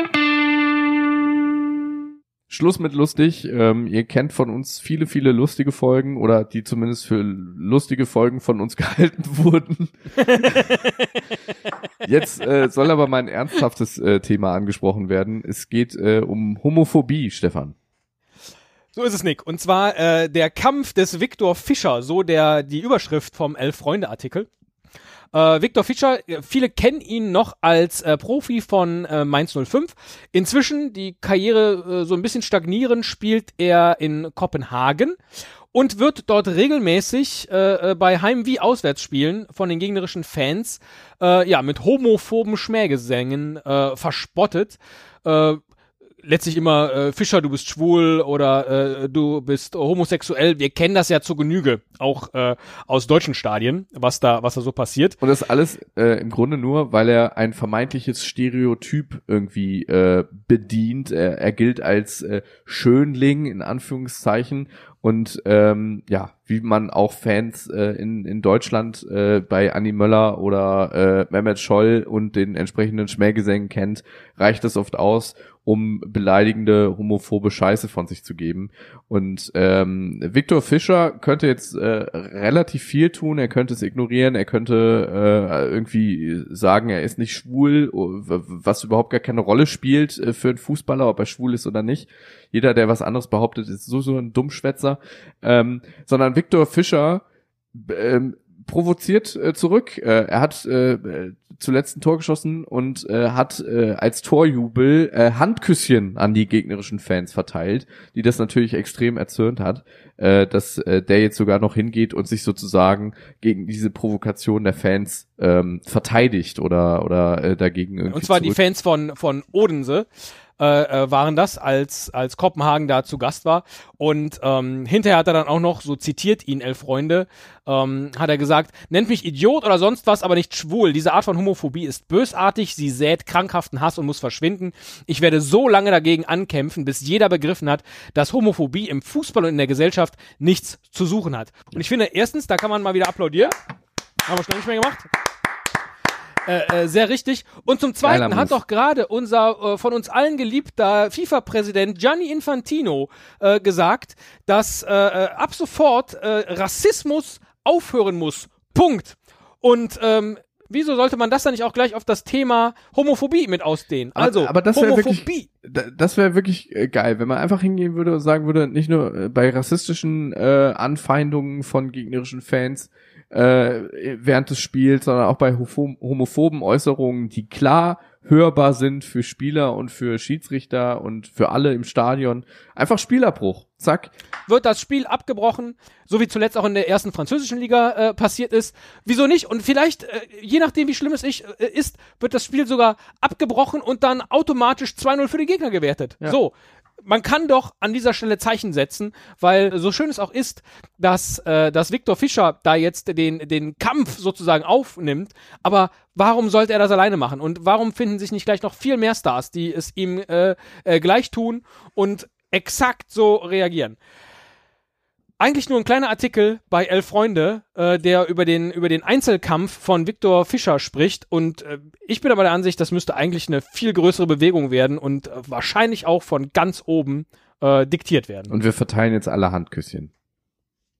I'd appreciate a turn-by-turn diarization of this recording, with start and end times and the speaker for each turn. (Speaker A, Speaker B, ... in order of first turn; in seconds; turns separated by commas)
Speaker A: 2.5-10.7, Speaker B: 10.2-11.1, Speaker A: 12.0-17.7, Speaker B: 18.9-24.5, Speaker B: 25.3-35.2, Speaker B: 35.7-45.6, Speaker B: 46.2-55.2, Speaker A: 55.2-118.6, Speaker B: 118.1-143.5, Speaker B: 144.2-145.1, Speaker B: 146.4-165.5, Speaker A: 148.0-148.6, Speaker A: 164.2-184.1, Speaker B: 184.5-214.0, Speaker B: 215.4-228.5, Speaker A: 228.5-230.1